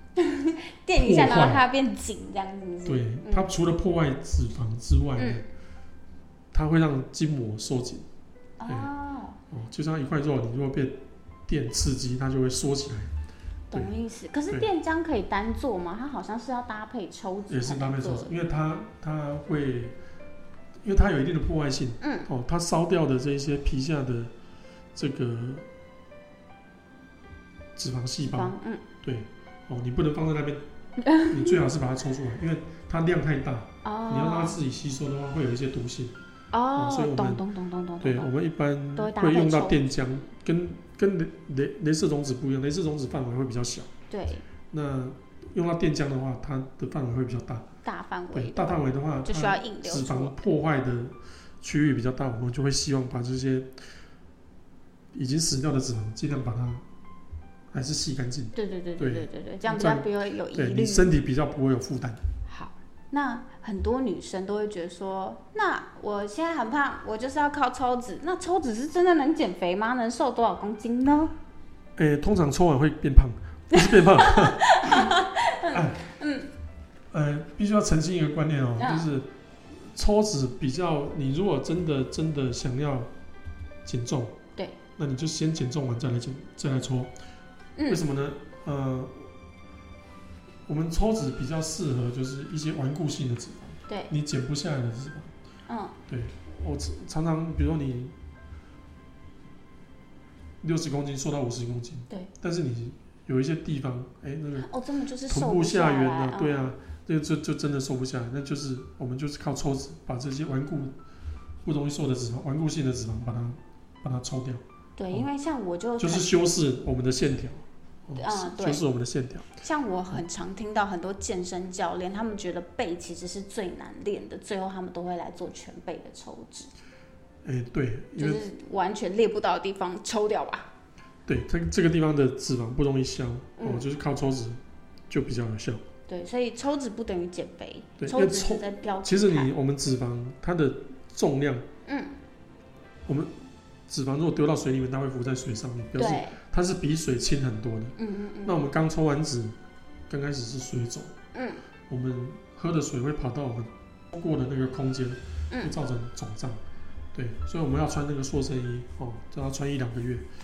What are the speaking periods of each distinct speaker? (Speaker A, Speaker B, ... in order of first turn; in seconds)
Speaker A: 0.2-3.5, 5.2-5.4, 8.6-9.4, 13.7-18.3, 22.0-22.3, 28.2-28.8, 31.0-31.6, 33.8-34.6, 36.5-38.3, 39.0-39.8, 44.1-44.5, 47.8-50.4, 58.5-61.1, 62.5-71.3, 73.7-76.5, 78.8-79.1, 95.7-95.9, 104.6-106.7, 115.0-116.3, 118.2-118.8, 119.6-126.7, 128.2-130.7, 133.6-133.8, 136.1-139.5, 141.9-142.1, 145.9-146.4, 148.0-148.6, 151.3-151.6
Speaker B: 0.9-1.6, 2.8-5.4, 6.5-8.1, 9.5-13.1, 17.5-19.9, 20.8-24.3, 24.9-25.7, 27.8-30.6, 31.3-36.1, 36.7-37.4, 38.0-43.9, 44.7-47.6, 48.3-53.7, 55.1-56.8, 57.7-62.2, 72.0-75.1, 75.7-76.0, 77.1-79.3, 79.8-83.1, 83.8-84.3, 85.0-87.1, 87.9-89.3, 90.7-95.3, 96.1-98.1, 100.6-104.7, 105.2-110.9, 111.6-115.3, 116.0-119.5, 127.4-128.4, 131.2-135.8, 138.0-141.7, 143.1-143.3, 143.9-149.6, 150.1-151.1, 151.9-156.6, 157.1-160.2